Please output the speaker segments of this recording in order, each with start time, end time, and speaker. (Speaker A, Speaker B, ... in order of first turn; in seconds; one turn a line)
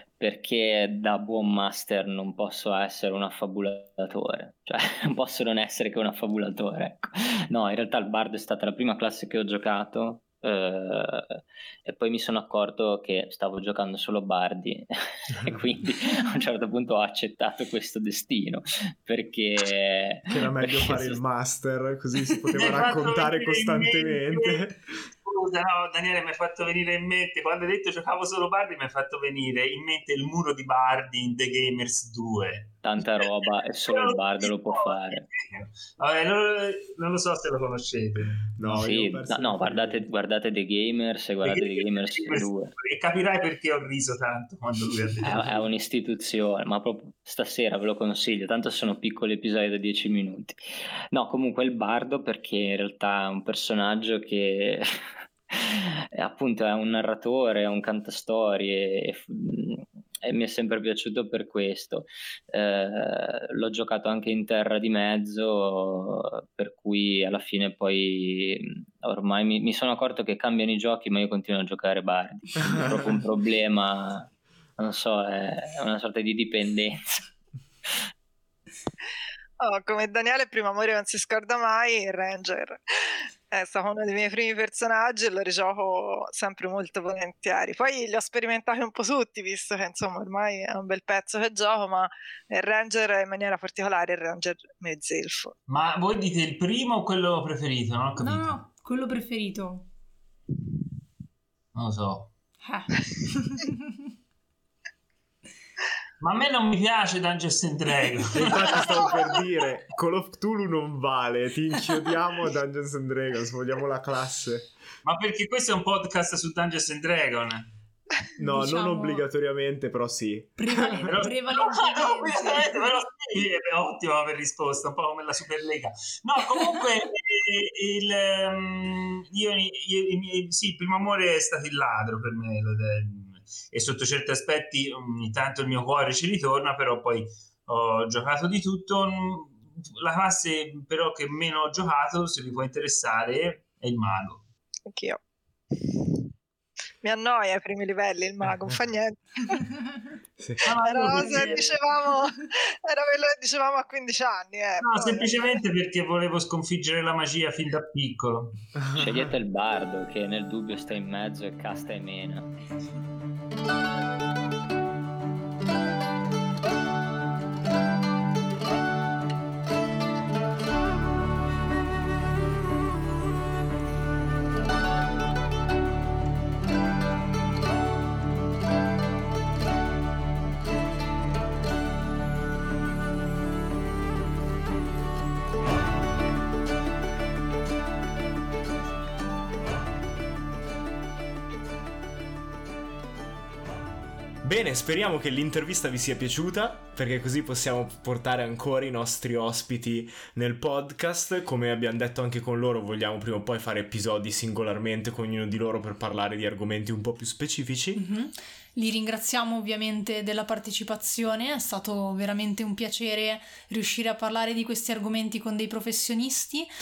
Speaker A: 0.2-21.2
Speaker B: 20.3-24.8
Speaker C: 22.5-33.3
Speaker A: 32.8-35.3
Speaker C: 33.9-38.5
Speaker B: 38.6-40.1
Speaker A: 38.6-42.7
Speaker C: 41.4-45.5
Speaker A: 45.2-77.3
Speaker D: 79.6-95.5
Speaker C: 95.7-98.5
Speaker E: 98.2-99.8
Speaker C: 101.7-102.3
Speaker E: 102.6-103.8
Speaker C: 106.2-109.4
Speaker B: 108.3-114.7
Speaker C: 115.0-117.7
Speaker B: 118.4-121.2
Speaker E: 118.5-119.2
Speaker E: 120.6-122.8
Speaker C: 121.1-144.4
Speaker D: 144.9-145.2
Speaker D: 145.7-146.2
Speaker D: 147.0-149.7
Speaker B: 150.4-150.7
Speaker C: 150.6-151.8
Speaker D: 150.8-155.4
Speaker C: 154.8-158.6
Speaker A: 158.9-162.5
Speaker B: 194.4-208.0
Speaker E: 207.9-216.7